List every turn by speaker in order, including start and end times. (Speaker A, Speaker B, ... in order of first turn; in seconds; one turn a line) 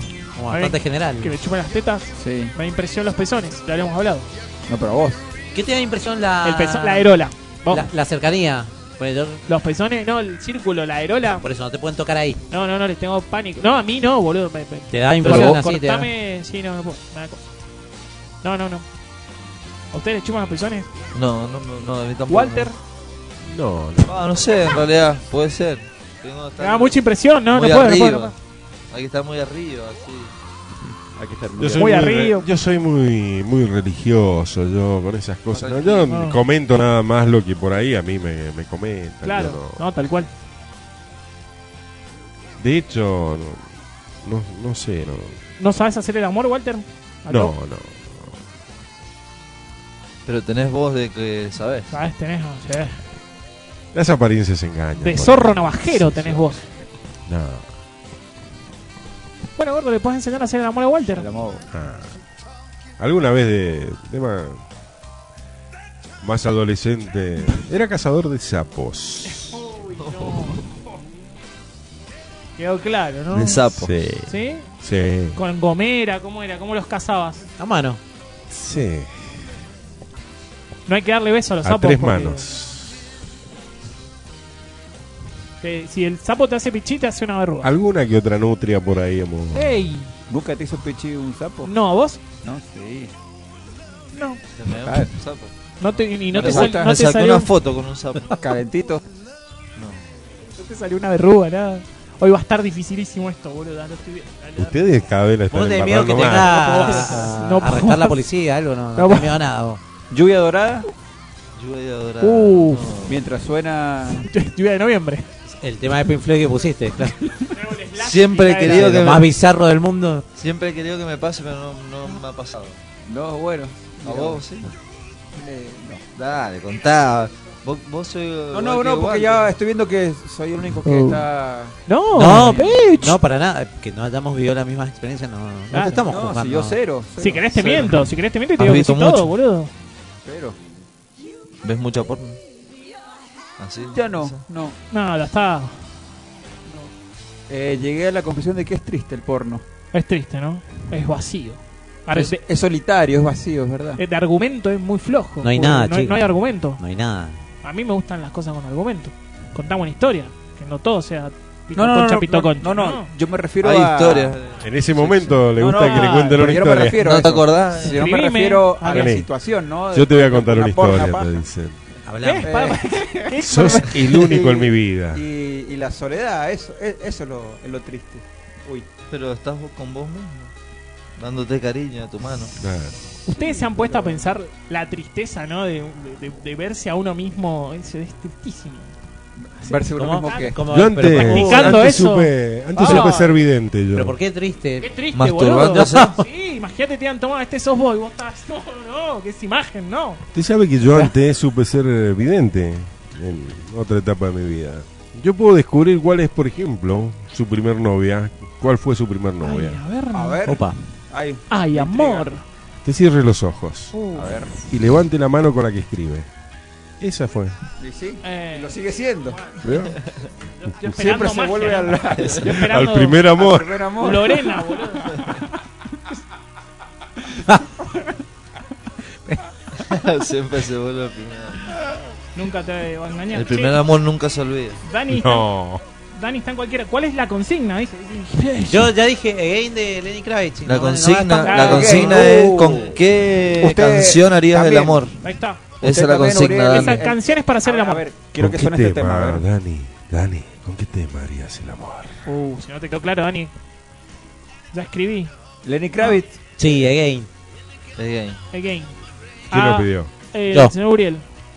Speaker A: 0.4-1.3
Speaker B: 0.5-4.3
Speaker C: 2.2-2.5
Speaker C: 4.7-5.2
Speaker A: 5.5-7.1
Speaker B: 6.4-7.9
Speaker A: 7.7-9.4
Speaker B: 9.5-11.4
Speaker A: 11.3-12.4
Speaker B: 12.5-17.5
Speaker A: 14.9-16.1
Speaker C: 15.2-15.6
Speaker B: 18.4-18.9
Speaker B: 19.9-20.9
Speaker D: 21.1-22.7
Speaker B: 22.3-22.8
Speaker E: 23.4-24.2
Speaker D: 24.0-28.3
Speaker B: 26.6-28.4
Speaker D: 28.9-30.3
Speaker C: 31.1-32.0
Speaker E: 31.6-39.8
Speaker B: 31.8-32.5
Speaker D: 35.5-36.1
Speaker B: 36.1-36.4
Speaker B: 39.2-40.3
Speaker E: 42.6-43.7
Speaker E: 44.2-45.4
Speaker B: 45.6-47.5
Speaker E: 47.3-48.4
Speaker D: 50.3-51.9
Speaker B: 51.9-53.0
Speaker E: 53.9-56.5
Speaker B: 55.0-56.7
Speaker E: 57.3-57.7
Speaker B: 59.6-61.3
Speaker C: 61.1-61.7
Speaker E: 61.7-62.1
Speaker E: 63.0-64.6
Speaker E: 66.2-69.6
Speaker B: 69.3-70.8
Speaker D: 70.0-70.6
Speaker B: 72.6-73.7
Speaker D: 73.3-74.0
Speaker E: 73.8-75.4
Speaker B: 74.3-74.7
Speaker B: 75.3-77.5
Speaker A: 77.6-78.0
Speaker E: 78.5-79.3
Speaker B: 80.9-82.5
Speaker E: 81.6-83.0
Speaker B: 85.6-87.7
Speaker E: 87.6-89.7
Speaker B: 89.5-90.1
Speaker C: 90.3-91.7
Speaker B: 91.6-92.2
Speaker C: 92.4-93.1
Speaker B: 94.1-94.4
Speaker D: 94.6-95.5
Speaker C: 94.7-95.1
Speaker B: 95.8-97.5
Speaker D: 96.3-98.4
Speaker C: 96.3-96.9
Speaker C: 98.4-99.0
Speaker D: 99.8-100.0
Speaker B: 100.6-104.8
Speaker E: 104.6-106.6
Speaker A: 105.5-109.8
Speaker B: 106.3-108.2
Speaker B: 109.0-109.4
Speaker C: 110.1-110.9
Speaker D: 111.6-113.2
Speaker B: 112.2-112.9
Speaker C: 113.1-114.3
Speaker B: 114.2-115.2
Speaker A: 115.6-117.2
Speaker B: 117.5-119.0
Speaker D: 118.0-119.3
Speaker A: 118.6-120.2
Speaker D: 120.4-122.8
Speaker C: 123.1-124.4
Speaker D: 124.0-124.7
Speaker C: 125.4-126.0
Speaker D: 126.2-129.6
Speaker C: 128.5-131.8
Speaker B: 130.9-131.2
Speaker B: 131.9-133.2
Speaker A: 132.1-136.8
Speaker B: 135.7-136.1
Speaker C: 136.1-138.0
Speaker B: 137.2-139.7
Speaker D: 138.6-139.3
Speaker C: 140.2-140.6
Speaker D: 141.6-142.4
Speaker D: 143.6-144.4
Speaker C: 143.9-144.8
Speaker B: 144.9-145.8
Speaker C: 147.5-149.6
Speaker B: 149.9-152.4
Speaker C: 152.1-154.0
Speaker B: 154.0-156.8
Speaker A: 155.4-157.4
Speaker B: 157.6-163.1
Speaker C: 161.8-164.4
Speaker D: 163.6-165.4
Speaker E: 164.6-167.2
Speaker C: 165.6-171.4
Speaker B: 165.7-166.4
Speaker D: 166.9-168.1
Speaker B: 167.8-169.2
Speaker E: 168.8-169.3
Speaker E: 169.9-171.8
Speaker A: 172.1-172.6
Speaker B: 172.2-174.0
Speaker C: 172.4-173.4
Speaker E: 173.4-175.2
Speaker D: 174.1-174.7
Speaker C: 175.1-178.9
Speaker D: 179.1-180.5
Speaker D: 181.2-182.6
Speaker E: 182.6-183.0
Speaker B: 183.2-188.9
Speaker C: 183.3-184.3
Speaker C: 189.4-190.6
Speaker B: 189.6-193.4
Speaker A: 190.0-191.9
Speaker E: 190.7-194.2
Speaker A: 193.9-194.9
Speaker B: 194.8-200.2
Speaker D: 195.1-196.1
Speaker A: 195.6-196.2
Speaker E: 200.3-209.8
Speaker B: 209.4-210.4
Speaker C: 210.1-212.3
Speaker A: 210.4-210.8
Speaker B: 211.5-212.4
Speaker E: 212.8-214.0
Speaker B: 213.9-214.4
Speaker C: 214.1-214.6
Speaker E: 214.7-216.3
Speaker E: 217.0-217.6
Speaker C: 217.8-219.8
Speaker B: 218.2-218.8
Speaker B: 219.3-219.7
Speaker E: 219.6-220.0
Speaker B: 220.6-223.2
Speaker C: 220.9-222.6
Speaker D: 222.2-222.4
Speaker E: 222.4-223.8
Speaker C: 223.3-225.2
Speaker B: 224.0-225.3
Speaker D: 229.9-231.7
Speaker B: 232.3-233.8
Speaker D: 233.3-234.8
Speaker B: 234.9-235.5
Speaker E: 235.1-235.8
Speaker B: 236.1-238.9
Speaker A: 238.7-242.2
Speaker D: 240.7-245.2
Speaker B: 241.4-242.2
Speaker C: 241.6-243.0
Speaker C: 243.6-245.0
Speaker B: 245.2-245.6
Speaker D: 245.8-247.0
Speaker C: 245.8-249.4
Speaker B: 246.7-248.0
Speaker E: 248.4-252.2
Speaker B: 252.3-253.5
Speaker B: 254.7-255.3
Speaker C: 255.7-256.8
Speaker A: 256.6-257.3
Speaker D: 257.9-258.4
Speaker B: 258.5-258.9
Speaker B: 259.5-261.2
Speaker E: 259.5-260.1